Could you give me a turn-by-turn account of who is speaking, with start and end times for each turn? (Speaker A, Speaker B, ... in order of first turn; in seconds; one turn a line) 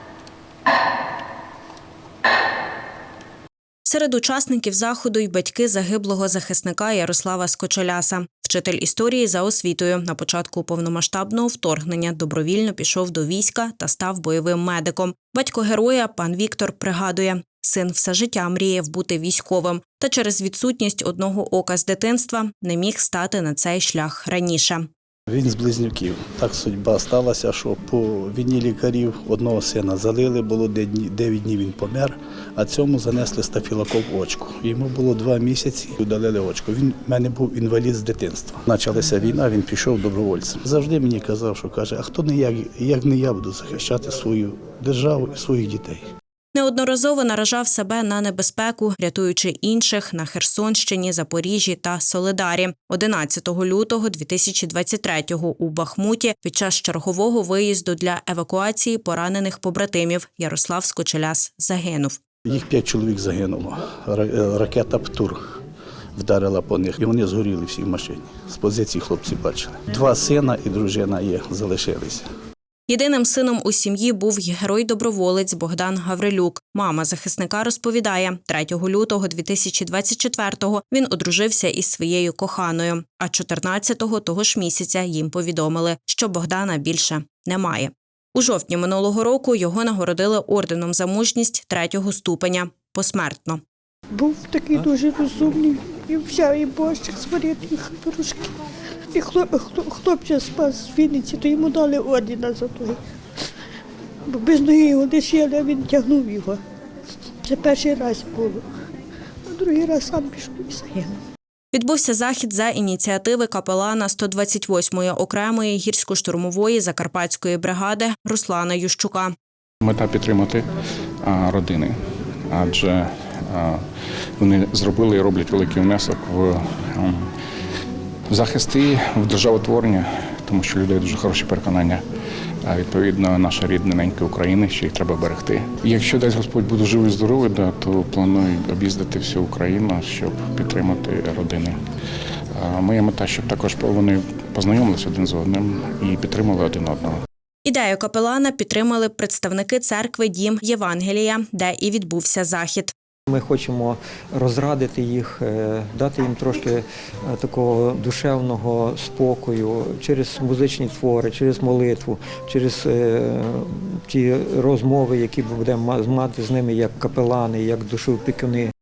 Speaker A: 3.9-24.9
Speaker B: 25.3-46.0
Speaker A: 46.5-62.2
Speaker B: 62.5-65.4
Speaker B: 66.1-72.3
Speaker A: 72.9-93.6
Speaker C: 94.1-98.5
Speaker C: 99.1-103.0
Speaker C: 104.3-106.6
Speaker C: 107.4-108.7
Speaker C: 109.5-111.2
Speaker A: 111.7-119.3
Speaker D: 119.8-120.7
Speaker D: 121.2-122.0
Speaker D: 122.5-123.8
Speaker D: 124.4-127.2
Speaker D: 128.3-132.0
Speaker D: 132.7-141.8
Speaker D: 142.5-147.2
Speaker A: 147.7-152.9
Speaker E: 153.3-168.7